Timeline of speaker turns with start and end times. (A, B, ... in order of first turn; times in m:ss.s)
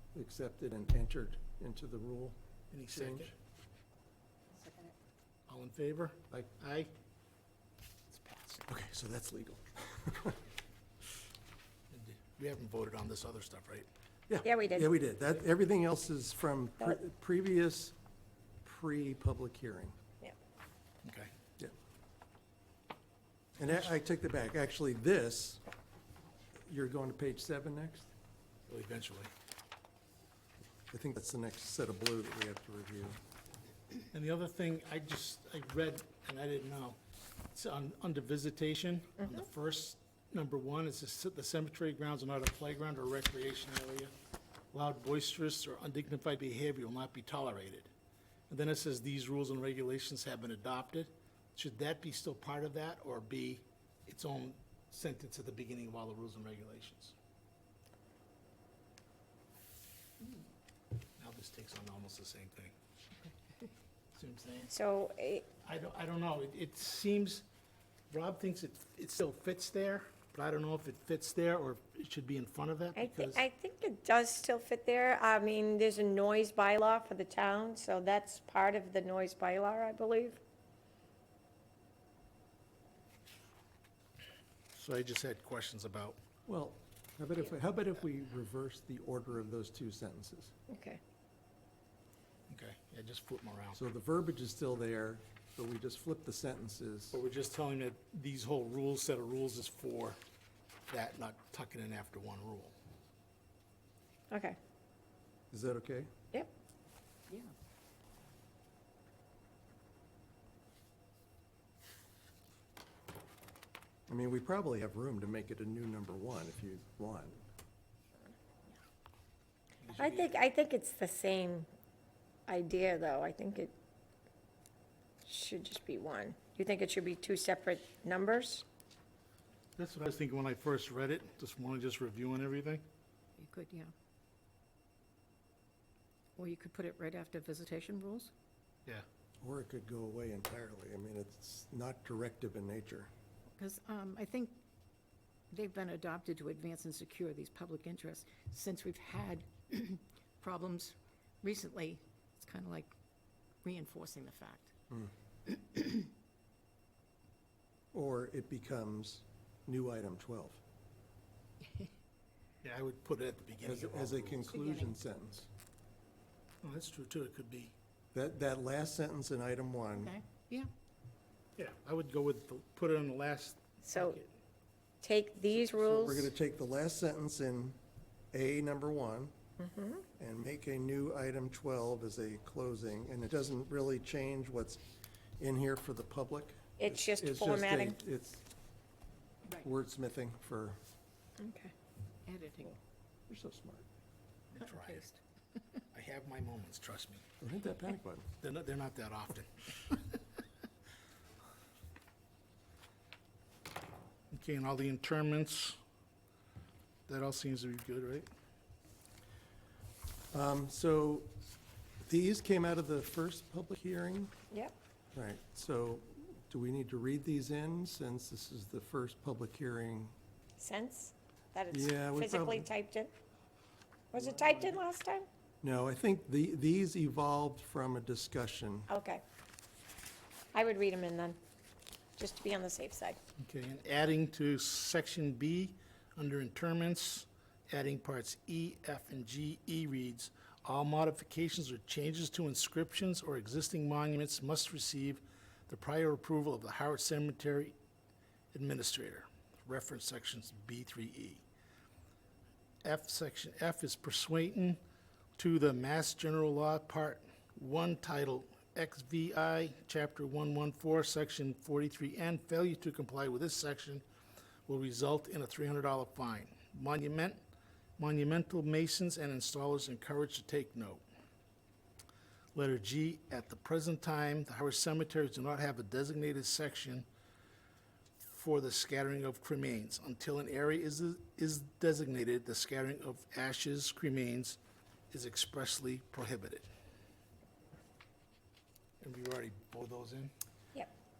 0:00.1-0:02.4 A
0:02.7-0:03.4 B
0:02.9-0:03.3 A
0:04.5-0:04.9 C
0:05.5-0:06.9 B
0:08.1-0:08.6 B
0:08.7-0:10.4 A
0:11.9-0:13.9 B
0:14.3-0:18.0 A
0:14.4-0:14.9 D
0:18.6-0:20.0 A
0:21.0-0:21.3 B
0:23.6-0:25.6 A
0:26.7-0:28.1 A
0:28.7-0:29.3 B
0:30.9-0:33.2 A
0:34.1-0:37.0 B
0:37.5-0:44.1 B
0:44.7-0:47.9 B
0:48.5-0:57.1 B
1:01.2-1:02.7 B
1:04.2-1:04.7 B
1:04.7-1:05.5 D
1:05.6-1:07.4 B
1:08.1-1:13.4 B
1:13.0-1:20.4 D
1:24.7-1:26.2 B
1:26.5-1:30.5 A
1:30.7-1:31.0 D
1:32.5-1:33.8 B
1:33.7-1:37.2 A
1:37.1-1:40.2 B
1:40.9-1:42.7 B
1:44.3-1:44.6 D
1:45.5-1:46.1 A
1:54.1-1:57.4 A
1:59.8-2:00.3 B
2:00.0-2:01.7 D
2:02.5-2:03.7 D
2:05.2-2:08.6 D
2:09.8-2:12.8 B
2:13.4-2:13.9 C
2:16.4-2:18.3 C
2:19.4-2:23.1 A
2:23.6-2:24.6 C
2:25.5-2:32.9 C
2:33.6-2:34.7 C
2:35.5-2:36.0 C
2:37.9-2:40.6 A
2:42.6-2:44.5 B
2:43.6-2:45.5 A
2:44.6-2:44.9 C
2:46.6-2:47.7 B
2:48.1-2:50.2 A
2:49.9-2:50.7 C
2:51.6-2:54.3 B
2:53.9-2:54.2 D
2:55.0-2:56.3 D
2:55.8-2:57.8 A
2:58.3-2:59.3 A
2:59.6-3:00.0 D
3:00.2-3:04.8 A
3:05.4-3:08.4 A
3:06.8-3:08.0 D
3:09.6-3:10.8 A
3:11.4-3:11.7 D
3:12.3-3:12.8 C
3:13.3-3:13.9 A
3:14.5-3:15.1 B
3:14.7-3:15.2 C
3:15.9-3:17.2 B
3:17.4-3:18.3 A
3:18.4-3:20.0 B
3:24.3-3:25.8 B
3:27.1-3:28.3 B
3:30.3-3:31.3 A
3:32.0-3:34.3 A
3:35.1-3:40.1 A
3:40.6-3:43.1 D
3:41.7-3:42.7 A
3:44.1-3:45.3 D
3:45.6-3:48.9 A
3:48.9-3:49.2 D
3:50.5-3:51.4 D
3:52.2-3:53.2 D
3:53.4-4:07.8 B
4:08.5-4:11.4 B
4:12.8-4:14.8 B
4:15.4-4:24.0 B
4:24.7-4:27.4 B
4:28.0-4:31.0 B
4:32.5-4:37.0 B
4:38.2-4:44.6 B
4:45.1-4:46.7 B
4:49.0-4:50.3 B